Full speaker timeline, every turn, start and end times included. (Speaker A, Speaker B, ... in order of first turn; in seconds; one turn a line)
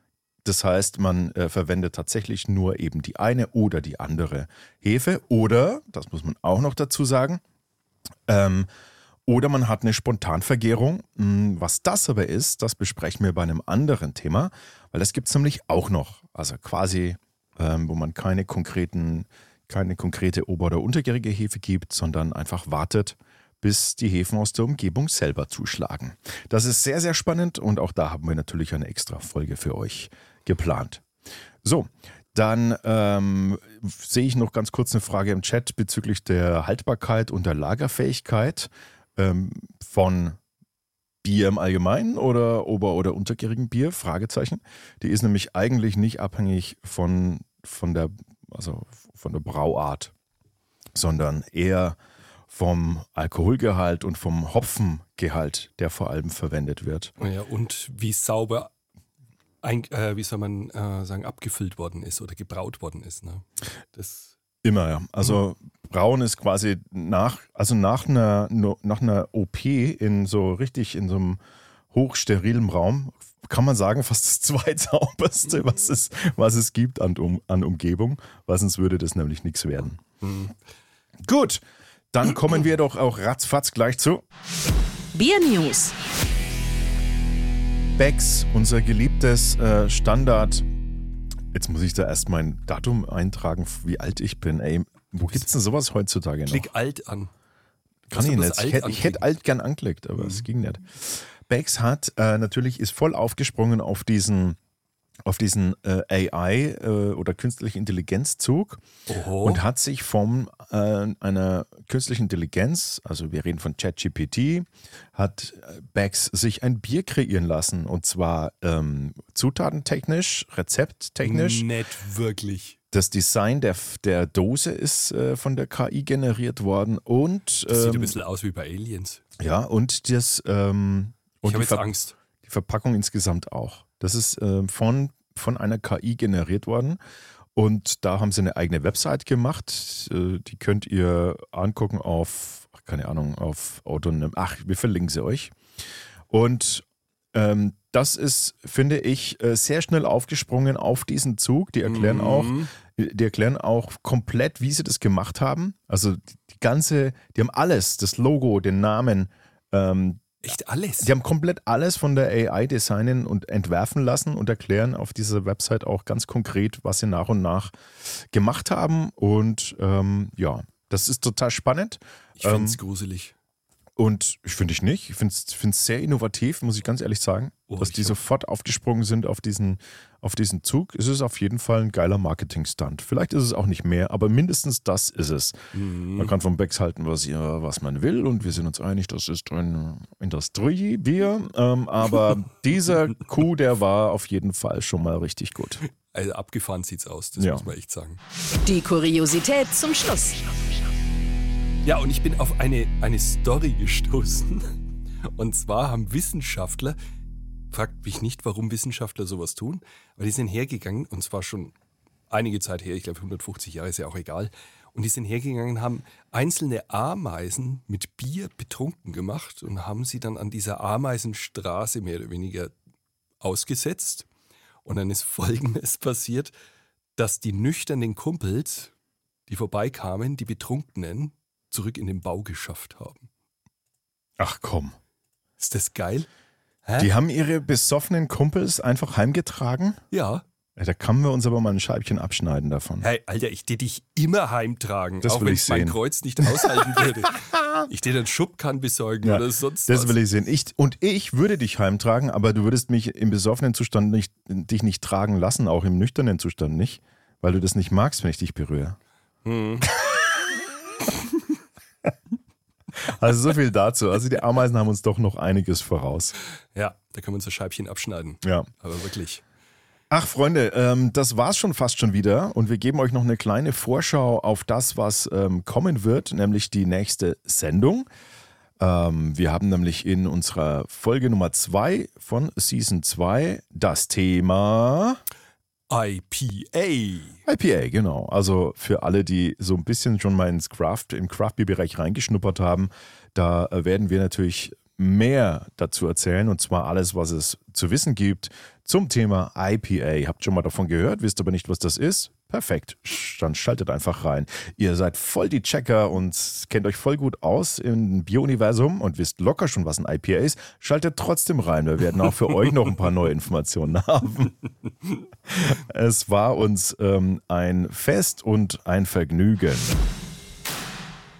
Speaker A: 0.4-7.4
Speaker A: 8.3-8.7
Speaker A: 9.3-31.0
Speaker A: 31.6-40.4
Speaker A: 41.2-50.1
Speaker A: 50.9-52.0
Speaker A: 52.5-57.1
Speaker B: 57.2-58.7
Speaker B: 59.6-64.3
Speaker A: 64.6-71.4
Speaker A: 71.9-80.0
Speaker B: 80.2-80.5
Speaker A: 81.2-84.2
Speaker C: 85.1-85.9
Speaker A: 88.0-90.7
Speaker A: 91.5-96.7
Speaker B: 96.5-97.3
Speaker B: 98.1-99.2
Speaker A: 98.1-104.6
Speaker B: 100.2-100.5
Speaker A: 105.2-108.8
Speaker B: 109.1-109.6
Speaker A: 109.4-121.7
Speaker B: 121.2-122.8
Speaker A: 122.9-128.2
Speaker B: 127.7-129.2
Speaker A: 129.4-131.9
Speaker B: 131.4-132.2
Speaker A: 132.4-137.0
Speaker A: 137.5-145.6
Speaker A: 146.3-160.4
Speaker B: 151.8-152.7
Speaker B: 160.4-161.1
Speaker A: 161.0-172.8
Speaker B: 172.4-173.3
Speaker A: 173.9-185.6
Speaker B: 177.7-178.2
Speaker B: 185.7-186.3
Speaker A: 186.2-195.8
Speaker B: 196.0-198.2
Speaker A: 197.3-197.7
Speaker C: 198.6-200.4
Speaker B: 201.8-206.9
Speaker B: 207.7-211.7
Speaker B: 212.3-222.7
Speaker B: 223.4-224.3
Speaker B: 224.8-226.5
Speaker B: 227.2-228.9
Speaker B: 229.5-233.3
Speaker A: 234.4-234.9
Speaker B: 235.6-236.3
Speaker B: 236.8-237.1
Speaker A: 237.0-240.0
Speaker B: 240.1-240.4
Speaker A: 240.8-243.1
Speaker B: 243.0-250.2
Speaker A: 245.2-247.8
Speaker A: 249.2-259.0
Speaker B: 259.4-259.9
Speaker A: 260.0-260.5
Speaker A: 263.0-266.3
Speaker B: 266.7-269.4
Speaker A: 268.4-268.7
Speaker A: 270.1-278.1
Speaker A: 278.8-285.2
Speaker B: 285.9-287.4
Speaker A: 287.4-314.6
Speaker A: 315.5-320.0